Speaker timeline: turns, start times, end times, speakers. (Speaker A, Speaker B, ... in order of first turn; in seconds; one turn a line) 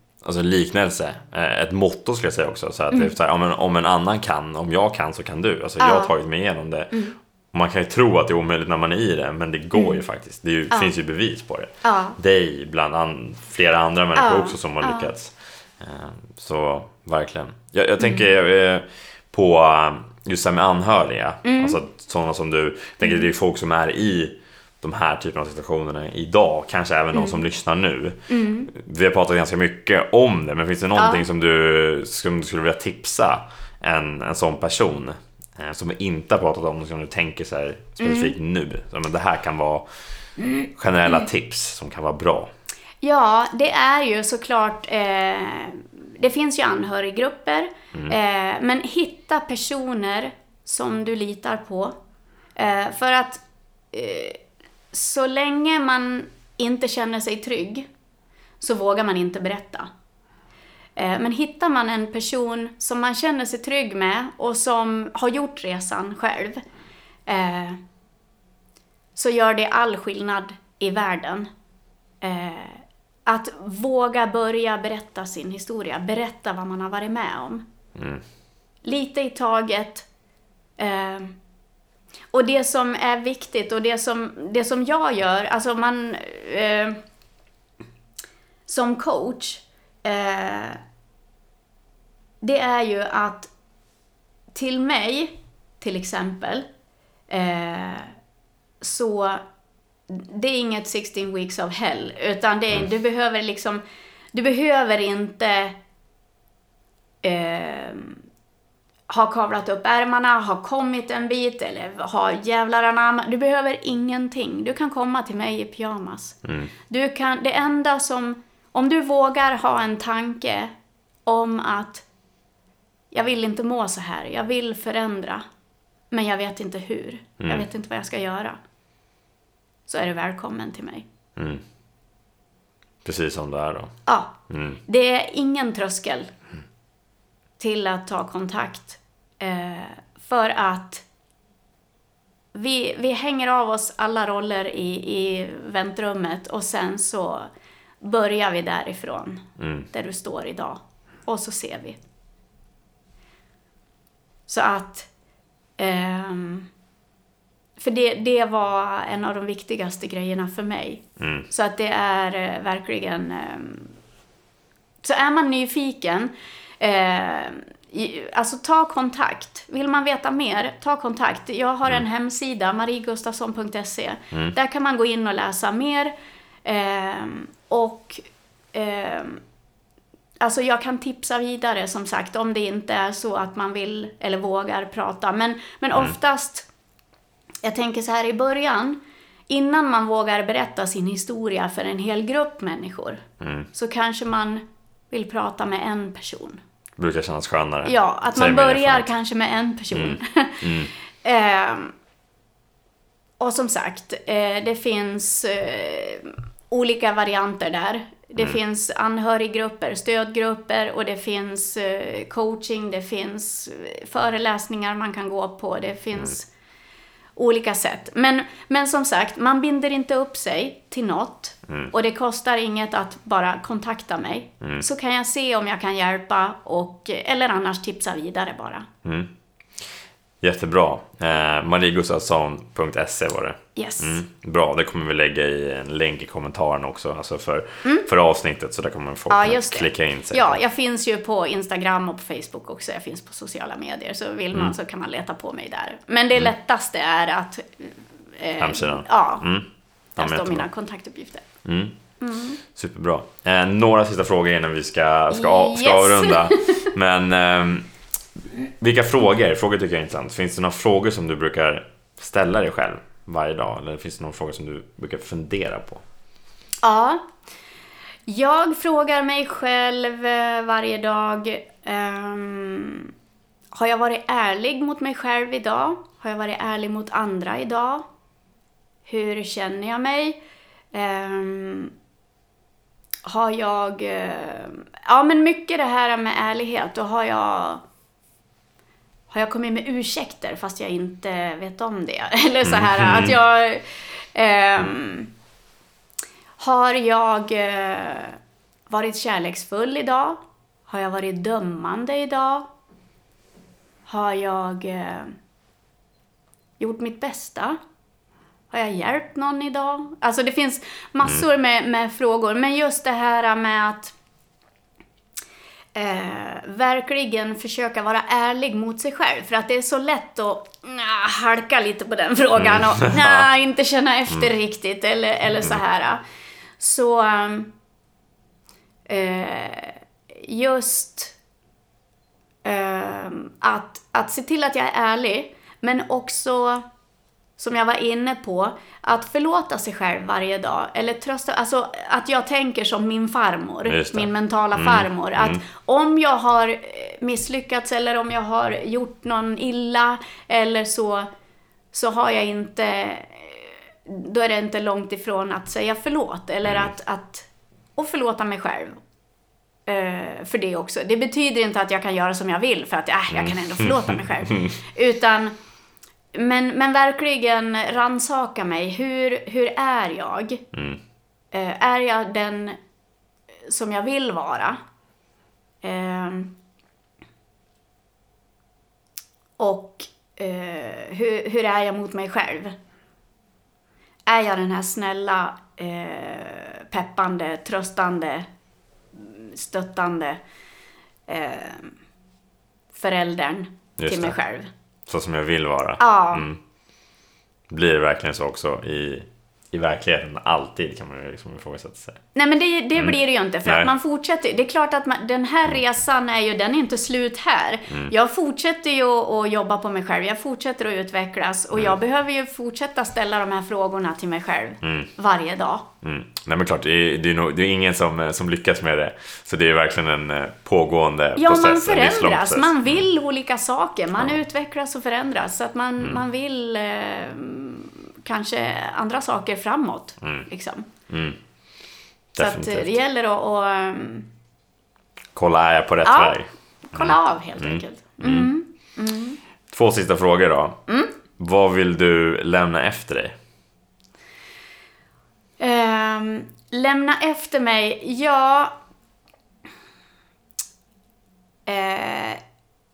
Speaker A: 0.2-39.9
Speaker B: 5.8-6.1
Speaker B: 11.8-12.2
Speaker B: 14.2-15.1
Speaker B: 21.4-21.8
Speaker B: 23.0-23.3
Speaker B: 27.1-27.4
Speaker B: 28.3-28.7
Speaker B: 31.0-31.2
Speaker B: 38.0-38.3
Speaker B: 40.4-40.7
Speaker A: 40.7-42.5
Speaker B: 43.0-52.0
Speaker B: 52.6-54.4
Speaker B: 54.9-57.9
Speaker B: 58.6-59.9
Speaker B: 61.0-66.6
Speaker B: 67.3-67.8
Speaker B: 69.2-71.5
Speaker B: 72.2-77.7
Speaker A: 78.0-78.2
Speaker B: 78.8-80.1
Speaker B: 80.8-81.4
Speaker B: 82.3-87.0
Speaker B: 88.7-90.8
Speaker B: 92.4-93.5
Speaker B: 94.5-96.7
Speaker B: 97.3-98.1
Speaker B: 98.8-99.4
Speaker B: 100.1-103.8
Speaker B: 104.3-105.8
Speaker B: 107.2-108.2
Speaker B: 109.1-116.4
Speaker A: 116.5-116.7
Speaker B: 116.9-120.7
Speaker B: 121.3-122.0
Speaker B: 123.1-125.5
Speaker B: 126.1-128.6
Speaker A: 127.4-127.7
Speaker B: 129.9-131.1
Speaker A: 131.4-131.6
Speaker A: 133.0-133.9
Speaker B: 134.1-136.3
Speaker A: 134.5-134.8
Speaker B: 137.6-141.0
Speaker B: 142.5-147.5
Speaker B: 148.0-152.0
Speaker A: 149.6-149.9
Speaker B: 154.5-155.1
Speaker B: 155.8-156.7
Speaker B: 157.8-163.9
Speaker A: 161.2-161.5
Speaker B: 165.0-176.1
Speaker B: 176.7-179.4
Speaker B: 180.4-186.7
Speaker B: 187.6-196.6
Speaker A: 193.4-193.7
Speaker A: 197.0-199.1
Speaker B: 197.8-201.9
Speaker A: 199.9-200.9
Speaker B: 203.4-216.5
Speaker B: 217.4-228.9
Speaker A: 229.0-229.3
Speaker A: 230.4-240.6
Speaker B: 233.8-234.2
Speaker B: 239.3-249.5
Speaker A: 248.6-250.7
Speaker B: 250.2-251.4
Speaker A: 251.7-252.0
Speaker B: 252.2-252.6
Speaker A: 252.6-257.9
Speaker B: 255.3-256.9
Speaker A: 258.5-266.0
Speaker B: 266.8-267.2
Speaker B: 268.3-273.1
Speaker B: 273.7-278.1
Speaker B: 279.1-280.4
Speaker B: 280.9-281.9
Speaker B: 283.3-287.8
Speaker B: 289.3-295.3
Speaker A: 292.6-293.4
Speaker B: 296.6-298.4
Speaker B: 298.9-302.7
Speaker B: 304.1-305.4
Speaker B: 306.8-307.8
Speaker B: 308.7-314.1
Speaker B: 315.9-326.2
Speaker A: 322.6-323.5
Speaker B: 326.8-327.7
Speaker B: 329.1-331.4
Speaker B: 332.6-336.8
Speaker B: 337.6-351.3
Speaker A: 343.9-345.6
Speaker B: 351.9-359.0
Speaker A: 356.6-356.9
Speaker B: 359.9-365.5
Speaker A: 363.3-364.7
Speaker B: 366.3-370.7
Speaker A: 370.7-371.0
Speaker B: 371.5-372.8
Speaker B: 373.7-374.8
Speaker B: 375.8-376.5
Speaker B: 379.6-382.7
Speaker B: 384.3-388.5
Speaker B: 389.1-390.4
Speaker B: 391.3-391.9
Speaker B: 392.9-394.7
Speaker A: 394.0-394.4
Speaker A: 395.1-396.6
Speaker B: 396.0-396.5
Speaker A: 397.7-402.2
Speaker B: 402.4-415.9
Speaker A: 403.0-403.9
Speaker A: 414.8-415.1
Speaker A: 416.0-423.1
Speaker B: 421.4-430.9
Speaker A: 431.1-431.4
Speaker A: 432.4-433.0
Speaker B: 432.4-434.3
Speaker A: 435.4-438.5
Speaker B: 436.1-439.4
Speaker A: 439.7-440.8
Speaker A: 441.4-443.4
Speaker B: 445.6-448.7
Speaker B: 451.7-452.4